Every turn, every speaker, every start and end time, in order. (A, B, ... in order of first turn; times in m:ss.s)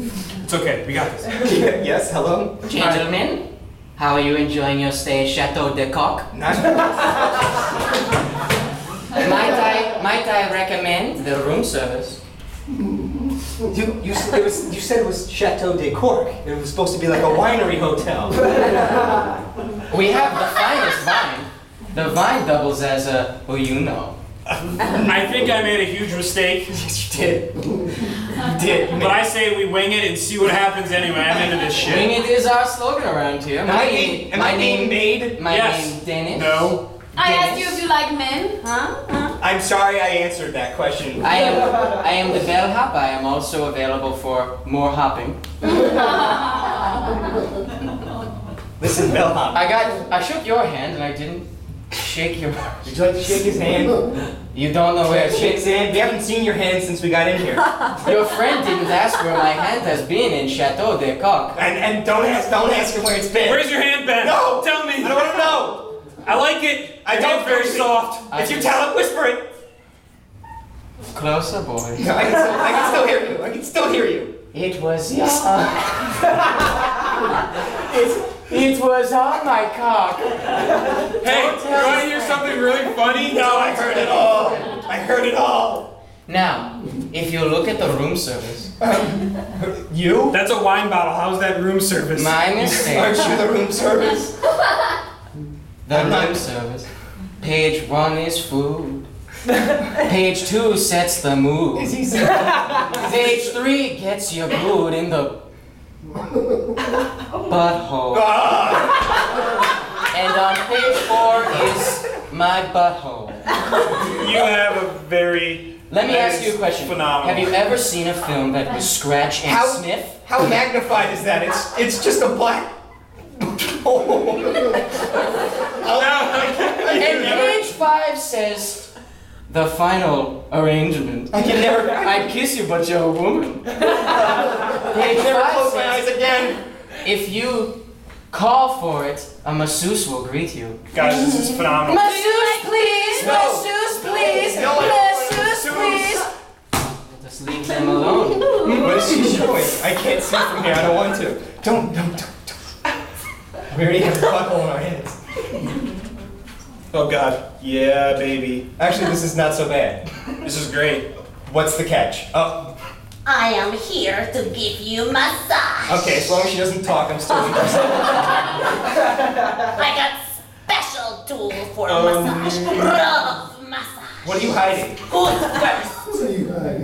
0:00.4-0:01.4 A
0:01.4-0:02.6 B
0:02.7-0:03.4 C
0:04.0-0:06.3 C
0:06.3-0:07.6 B
0:09.2-0:12.2 C
0:13.7-0:18.6 B
0:19.9-0:24.2 C
0:24.8-0:25.3 B
0:25.0-0:26.8 A
0:26.7-0:27.6 B
0:28.3-0:29.2 B
0:29.0-0:32.1 A
0:31.8-0:37.8 C
0:33.6-0:35.4 B
0:35.4-0:36.8 A
0:37.2-0:39.4 D
0:39.4-0:41.5 B
0:41.2-0:45.4 C
0:45.8-0:47.2 D
0:48.8-0:49.7 B
0:49.5-0:52.8 C
0:52.8-0:54.0 B
0:54.5-0:55.7 C
0:55.1-0:57.7 B
0:58.0-1:01.6 C
1:01.6-1:05.8 B
1:03.4-1:05.2 A
1:06.2-1:08.3 A
1:07.0-1:09.4 B
1:08.3-1:08.8 C
1:11.1-1:12.1 C
1:12.0-1:14.3 B
1:14.5-1:16.3 C
1:17.2-1:22.5 C
1:21.2-1:24.3 A
1:23.2-1:25.9 B
1:26.3-1:28.7 C
1:28.8-1:30.4 B
1:30.3-1:32.9 A
1:32.2-1:33.4 C
1:32.8-1:34.3 B
1:35.9-1:36.9 C
1:35.9-1:36.4 B
1:37.4-1:39.1 C
1:39.9-1:42.0 C
1:41.8-1:43.4 B
1:42.9-1:45.4 C
1:47.4-1:48.3 C
1:48.1-1:49.2 B
1:50.1-1:53.4 C
1:54.1-1:57.6 A
1:55.9-2:00.2 C
1:59.4-2:02.7 B
2:03.4-2:05.0 B
2:05.6-2:07.5 B
2:05.9-2:07.6 A
2:07.0-2:08.9 C
2:09.5-2:16.1 C
2:11.3-2:12.3 B
2:14.9-2:16.6 B
2:17.0-2:17.8 C
2:18.3-2:20.8 C
2:20.9-2:22.0 A
2:21.1-2:21.6 B
2:21.8-2:26.2 C
2:22.0-2:26.1 D
2:23.2-2:23.7 B
2:24.4-2:26.2 B
2:26.8-2:29.0 C
2:27.9-2:29.4 D
2:28.6-2:32.7 B
2:33.7-2:35.2 B
2:36.9-2:38.0 A
2:37.6-2:40.0 B
2:40.4-2:41.1 A
2:41.4-2:42.7 B
2:43.2-2:46.0 E
2:45.9-2:48.2 B
2:49.5-2:54.4 E
2:51.8-2:52.9 A
2:54.2-2:55.0 B
2:55.1-2:55.9 E